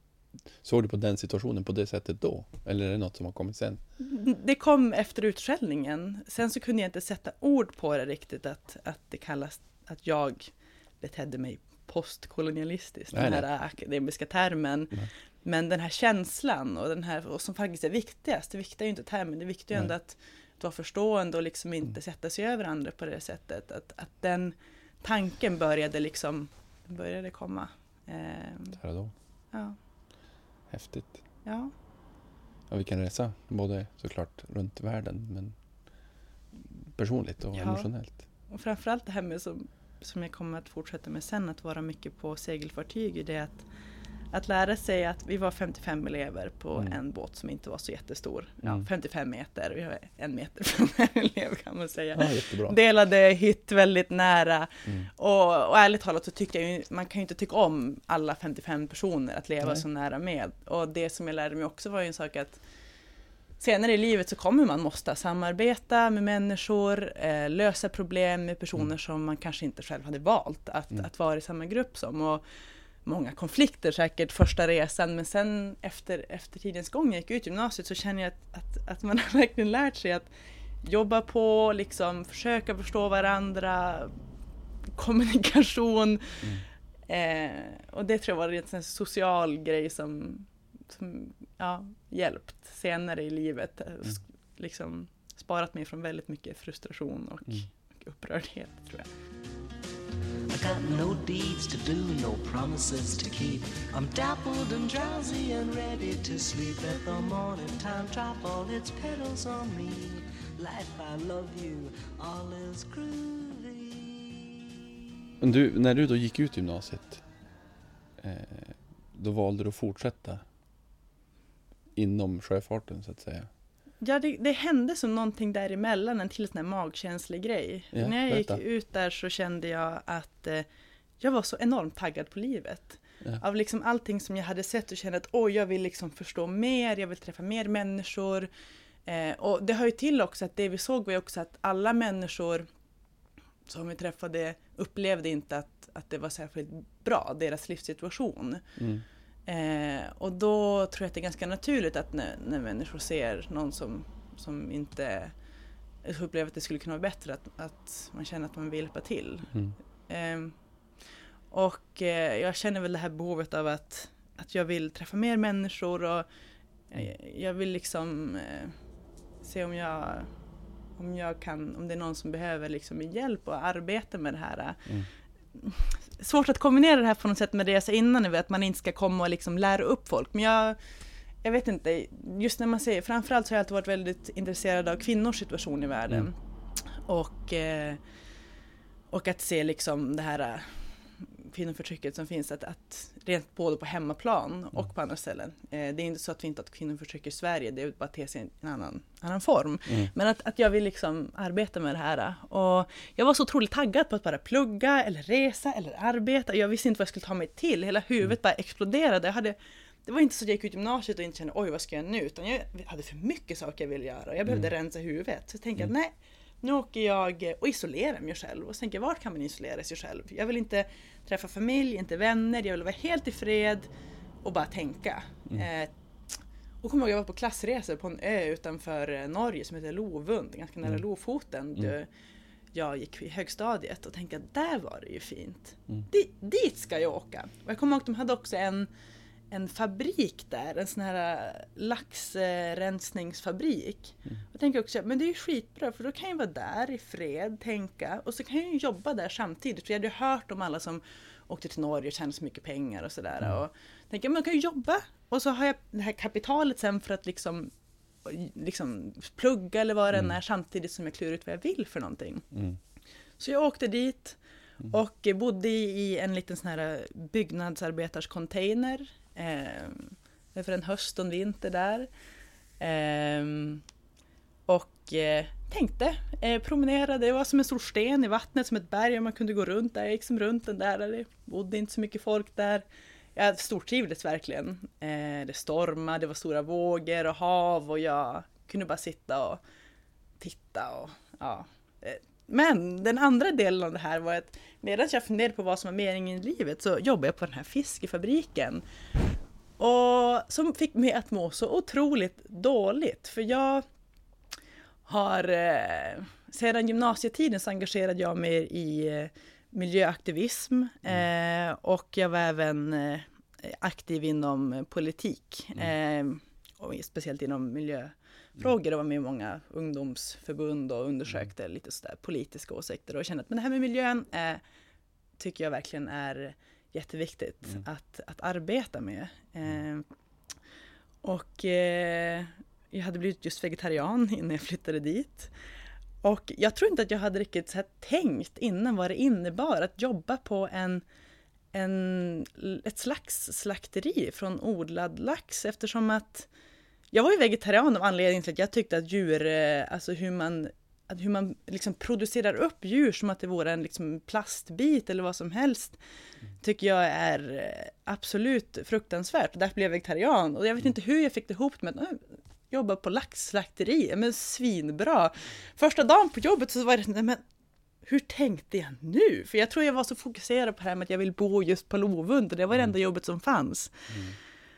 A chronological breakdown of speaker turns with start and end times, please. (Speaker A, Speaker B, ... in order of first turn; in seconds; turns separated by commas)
Speaker A: 0.6-3.8, Speaker B: 4.0-28.8, Speaker A: 13.1-13.4, Speaker A: 28.8-29.1, Speaker A: 30.7-31.2, Speaker B: 31.4-31.7, Speaker A: 32.7-35.5, Speaker A: 36.5-38.2, Speaker B: 37.5-37.9, Speaker B: 38.5-43.7, Speaker B: 44.3-62.6, Speaker A: 52.1-52.8, Speaker B: 63.6-72.4, Speaker B: 73.0-80.3, Speaker B: 80.8-84.1, Speaker B: 85.0-86.5, Speaker B: 87.1-99.1, Speaker C: 100.5-114.7, Speaker A: 115.4-117.2, Speaker A: 118.2-120.4, Speaker A: 122.0-123.5, Speaker B: 124.0-130.7, Speaker A: 127.9-128.6, Speaker B: 131.2-138.5, Speaker B: 139.1-142.7, Speaker B: 143.7-148.6, Speaker A: 148.8-149.0, Speaker B: 149.4-155.3, Speaker B: 156.0-159.5, Speaker B: 160.1-160.6, Speaker B: 161.5-166.3, Speaker B: 166.9-168.8, Speaker B: 169.4-170.3, Speaker B: 171.0-174.9, Speaker B: 175.5-180.8, Speaker B: 181.4-188.0, Speaker B: 189.1-223.9, Speaker B: 224.4-225.9, Speaker B: 226.8-232.1, Speaker B: 232.7-238.9, Speaker B: 239.5-257.7, Speaker B: 258.2-262.5, Speaker B: 263.4-272.1, Speaker B: 272.8-273.8, Speaker B: 274.7-282.8, Speaker B: 283.4-289.6, Speaker B: 290.4-298.8, Speaker B: 299.8-303.9, Speaker B: 305.1-324.6, Speaker B: 325.4-330.1, Speaker B: 331.2-335.5, Speaker B: 336.2-341.0, Speaker B: 341.7-346.5, Speaker B: 347.1-356.0, Speaker B: 356.6-367.4, Speaker B: 368.0-374.1, Speaker A: 374.1-374.3